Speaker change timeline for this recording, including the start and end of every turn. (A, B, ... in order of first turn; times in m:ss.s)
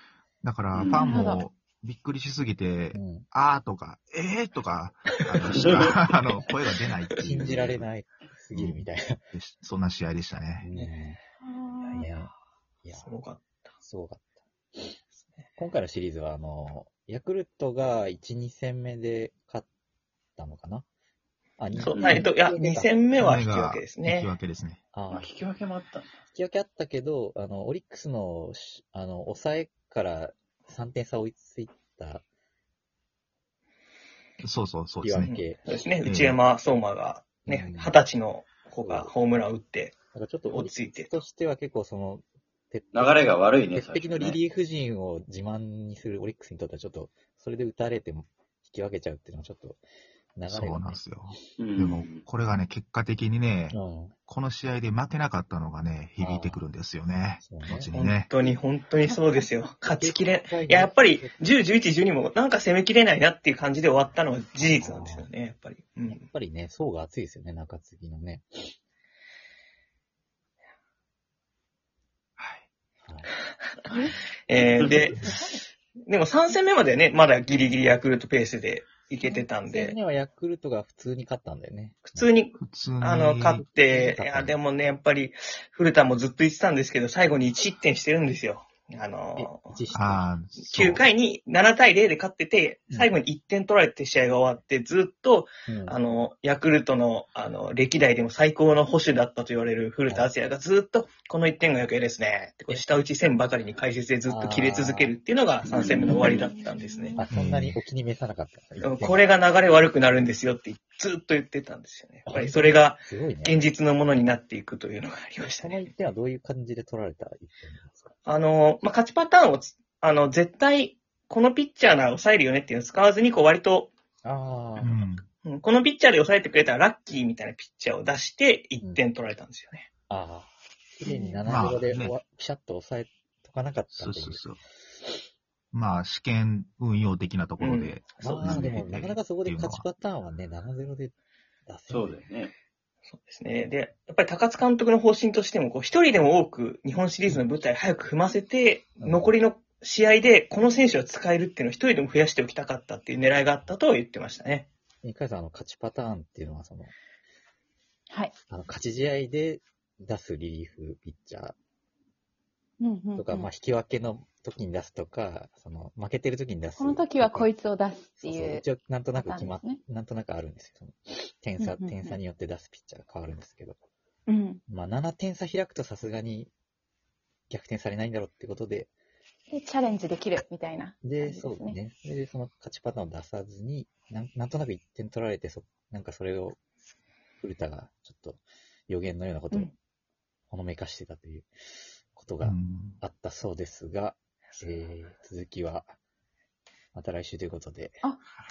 0:00.4-0:07.9 A
0:00.7-0:01.1 B
0:00.9-0:01.4 C
0:02.9-0:03.3 D
0:05.6-0:05.8 B
0:07.2-0:09.2 D
0:08.5-0:10.7 A
0:10.6-0:11.2 D
0:11.4-0:12.1 C
0:11.8-0:12.3 D
0:12.8-0:13.1 D
0:12.9-0:13.4 E
0:13.8-0:15.0 D
0:15.6-0:19.7 D
0:20.4-0:20.8 D
0:21.6-0:23.3 D
0:21.8-0:24.3 E
0:21.9-0:22.3 B
0:23.2-0:24.8 A
0:24.9-0:25.3 D
0:25.1-0:26.2 B
0:26.3-0:32.2 D
0:34.4-0:35.3 A
0:35.0-0:35.6 D
0:35.2-0:39.9 E
0:36.0-0:36.4 A
0:37.4-0:38.0 D
0:38.8-0:39.1 D
0:40.1-0:49.8 D
0:40.5-0:41.1 E
0:42.9-0:44.4 B
0:50.4-0:51.0 D
0:50.5-0:53.8 A
0:51.6-0:52.2 B
0:53.7-0:54.1 D
0:54.3-0:58.3 A
0:56.2-0:56.6 D
0:57.4-0:57.9 D
0:57.9-1:06.2 E
0:59.8-1:01.4 D
1:04.6-1:05.3 D
1:06.1-1:08.7 D
1:12.4-1:12.6 A
1:13.0-1:13.3 D
1:13.9-1:14.2 C
1:14.5-1:15.2 E
1:15.1-1:15.3 D
1:15.1-1:15.6 C
1:16.0-1:20.0 E
1:19.6-1:22.3 D
1:22.0-1:29.8 E
1:22.6-1:23.6 A
1:23.8-1:24.6 D
1:29.4-1:30.2 D
1:29.9-1:31.0 A
1:30.6-1:47.2 E
1:35.7-1:36.0 D
1:44.2-1:45.1 D
1:45.7-1:46.4 B
1:46.5-1:47.2 C
1:47.2-1:49.2 D
1:47.3-1:47.8 A
1:48.8-1:55.9 E
1:52.2-1:53.6 D
1:55.6-1:58.1 D
1:58.2-2:03.9 E
2:04.2-2:05.0 D
2:04.8-2:05.2 A
2:05.4-2:09.9 E
2:10.1-2:14.5 D
2:11.0-2:11.5 C
2:11.4-2:12.1 A
2:13.9-2:14.6 A
2:15.7-2:19.8 A
2:17.6-2:18.8 E
2:18.2-2:21.1 D
2:21.7-2:22.2 D
2:21.9-2:22.5 B
2:23.1-2:34.7 E
2:29.0-2:29.3 D
2:35.0-2:36.9 D
2:38.5-2:41.5 D
2:42.8-2:43.5 C
2:43.2-2:47.5 D
2:46.8-2:49.8 C
2:48.2-2:53.8 D
2:51.6-2:52.2 C
2:54.3-2:54.6 C
2:54.7-2:56.5 D
2:57.5-2:58.9 D
2:59.5-3:01.8 C
3:01.0-3:06.6 D
3:07.4-3:09.7 D
3:10.5-3:15.9 D
3:12.4-3:13.0 A
3:16.9-3:18.0 D